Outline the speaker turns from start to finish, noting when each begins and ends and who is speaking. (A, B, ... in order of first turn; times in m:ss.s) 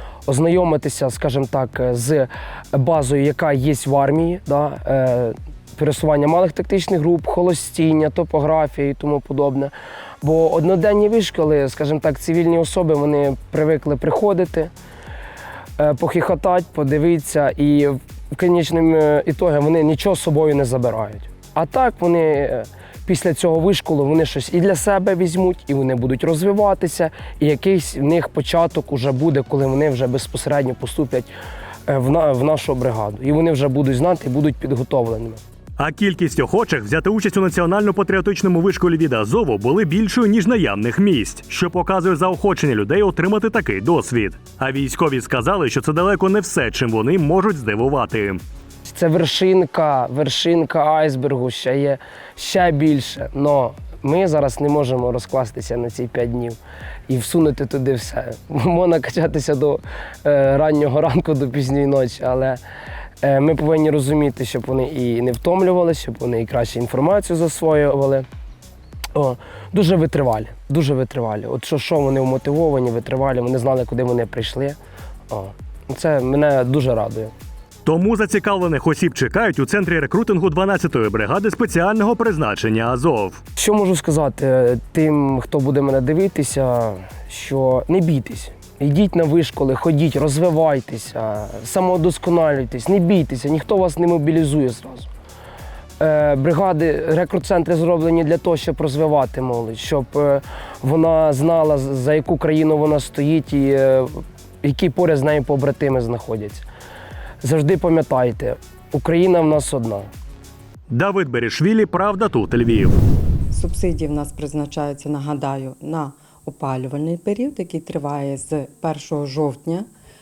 0:00.3-0:14.7 A
0:15.8-0:31.3 A
0:31.9-0:35.4 A
0:35.8-0:48.4 B
0:48.9-0:56.6 A
0:57.1-1:02.6 A
1:03.2-1:08.2 A
1:09.1-1:14.8 A
1:15.3-1:17.3 A
1:17.8-1:23.4 B
1:23.6-1:35.1 A
1:36.0-1:46.6 A
1:47.4-1:50.1 A
1:50.9-1:53.0 B
1:53.5-1:59.9 C